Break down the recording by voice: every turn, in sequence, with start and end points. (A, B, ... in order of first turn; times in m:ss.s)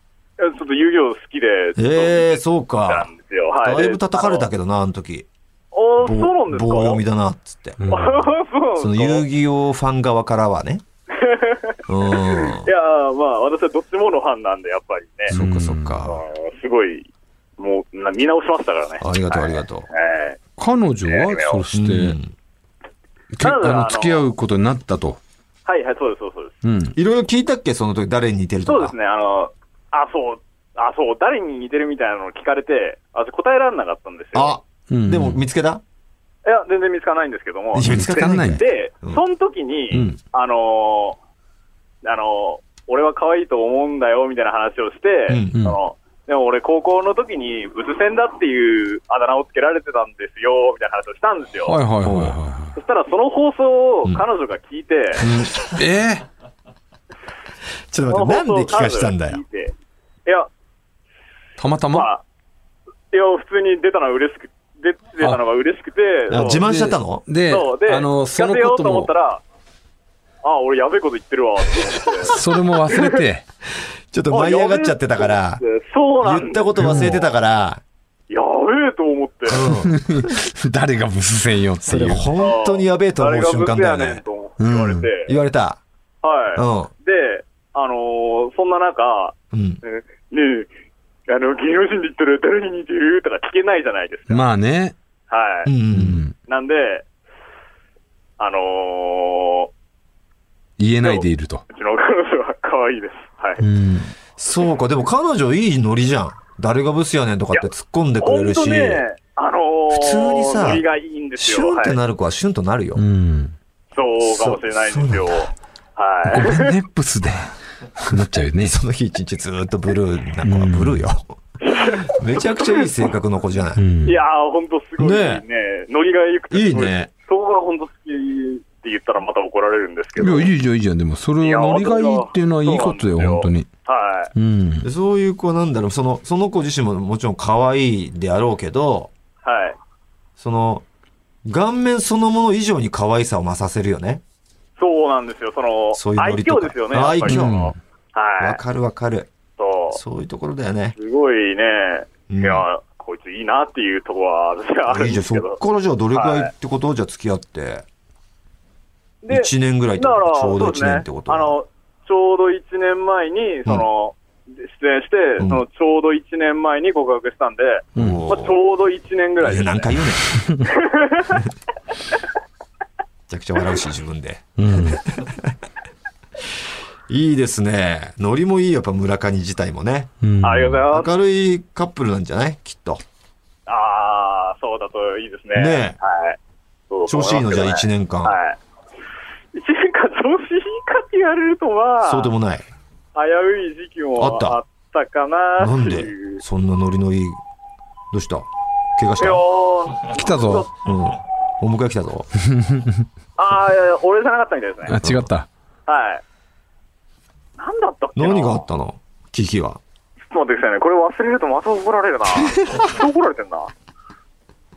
0:00.4-0:04.5 A
0:01.8-0:03.1 B
0:03.6-0:05.3 B
0:05.7-0:07.0 A
0:06.0-0:07.8 B
0:07.8-0:08.3 C
0:07.9-0:09.2 A
0:08.8-0:10.8 B
0:11.1-0:15.3 A
0:11.9-0:12.7 B
0:15.3-0:16.2 B
0:15.3-0:16.1 C
0:16.1-0:20.4 A
0:19.0-0:19.9 B
0:20.6-0:22.2 C
0:21.1-0:21.6 A
0:21.7-0:22.3 B
0:23.3-0:25.2 C
0:23.4-0:24.2 A
0:25.6-0:26.6 A
0:26.6-0:27.0 C
0:26.9-0:28.9 B
0:28.7-0:34.6 A
0:34.3-0:35.8 B
0:34.9-0:35.4 C
0:36.4-0:41.2 A
0:37.7-0:39.2 B
0:37.8-0:38.6 C
0:39.9-0:40.2 C
0:42.0-0:51.8 A
0:45.3-0:45.6 B
0:51.6-0:52.8 C
0:52.0-0:52.4 B
0:52.8-0:55.2 A
0:55.2-0:56.2 C
0:55.4-0:55.7 B
0:57.9-0:59.4 B
0:58.1-0:59.7 A
1:01.6-1:02.1 C
1:01.9-1:02.2 A
1:03.1-1:06.6 A
1:06.3-1:07.2 B
1:06.5-1:09.1 C
1:07.5-1:09.4 A
1:10.4-1:13.2 A
1:12.2-1:13.4 C
1:14.1-1:15.6 B
1:14.3-1:17.1 A
1:16.2-1:17.8 B
1:16.8-1:17.2 C
1:18.3-1:19.7 A
1:19.5-1:20.3 B
1:19.7-1:22.3 C
1:21.8-1:24.2 B
1:22.4-1:25.3 A
1:24.6-1:25.1 C
1:25.2-1:25.8 B
1:26.2-1:30.7 A
1:26.6-1:26.9 B
1:29.5-1:29.8 B
1:31.3-1:34.4 A
1:34.3-1:35.0 C
1:35.3-1:35.7 A
1:35.6-1:36.2 B
1:35.9-1:36.3 C
1:36.5-1:37.0 A
1:38.4-1:39.7 A
1:40.8-1:41.6 C
1:41.0-1:43.6 A
1:43.6-1:44.1 C
1:44.4-1:49.0 B
1:48.2-1:52.0 A
1:49.9-1:50.8 B
1:51.4-1:53.0 B
1:53.0-1:53.5 C
1:53.9-1:56.8 A
1:54.2-1:55.4 B
1:56.2-1:58.8 C
1:58.6-2:03.8 B
2:00.4-2:01.0 C
2:01.6-2:03.0 A
2:03.8-2:04.2 C
2:04.0-2:10.5 A
2:05.0-2:05.4 B
2:06.5-2:07.1 B
2:10.2-2:13.7 C
2:11.4-2:14.3 A
2:14.3-2:14.9 C
2:14.8-2:19.1 B
2:19.4-2:19.8 A
2:20.4-2:20.8 B
2:21.4-2:24.2 B
2:24.8-2:28.6 A
2:25.9-2:27.7 B
2:27.3-2:27.8 C
2:28.4-2:29.3 B
2:29.6-2:30.0 A
2:29.9-2:31.0 B
2:31.0-2:35.6 A
2:32.3-2:32.6 B
2:34.9-2:37.8 B
2:36.1-2:36.5 A
2:39.2-2:49.9 A
2:39.3-2:41.6 B
2:45.4-2:45.6 B
2:48.0-2:48.2 C
2:48.0-2:48.6 B
2:49.4-2:50.5 B
2:50.6-2:51.4 A
2:53.3-2:55.5 B
2:54.6-2:55.0 C
2:57.1-3:00.1 B
3:00.2-3:00.8 C
3:00.4-3:01.1 A
3:00.9-3:03.0 B
3:03.7-3:06.4 A
3:05.5-3:06.0 B
3:06.9-3:08.6 A
3:07.1-3:08.4 B
3:09.5-3:12.3 A
3:12.0-3:12.6 B
3:13.1-3:16.4 A
3:14.2-3:14.6 B
3:15.6-3:17.4 B
3:18.1-3:19.4 B
3:19.2-3:20.7 A
3:20.1-3:20.7 C
3:20.8-3:22.3 B
3:22.5-3:23.0 C
3:23.4-3:25.0 A
3:24.8-3:25.5 C
3:25.0-3:25.3 B
3:25.9-3:26.2 A
3:27.6-3:28.6 A
3:28.2-3:29.8 B
3:30.3-3:33.7 A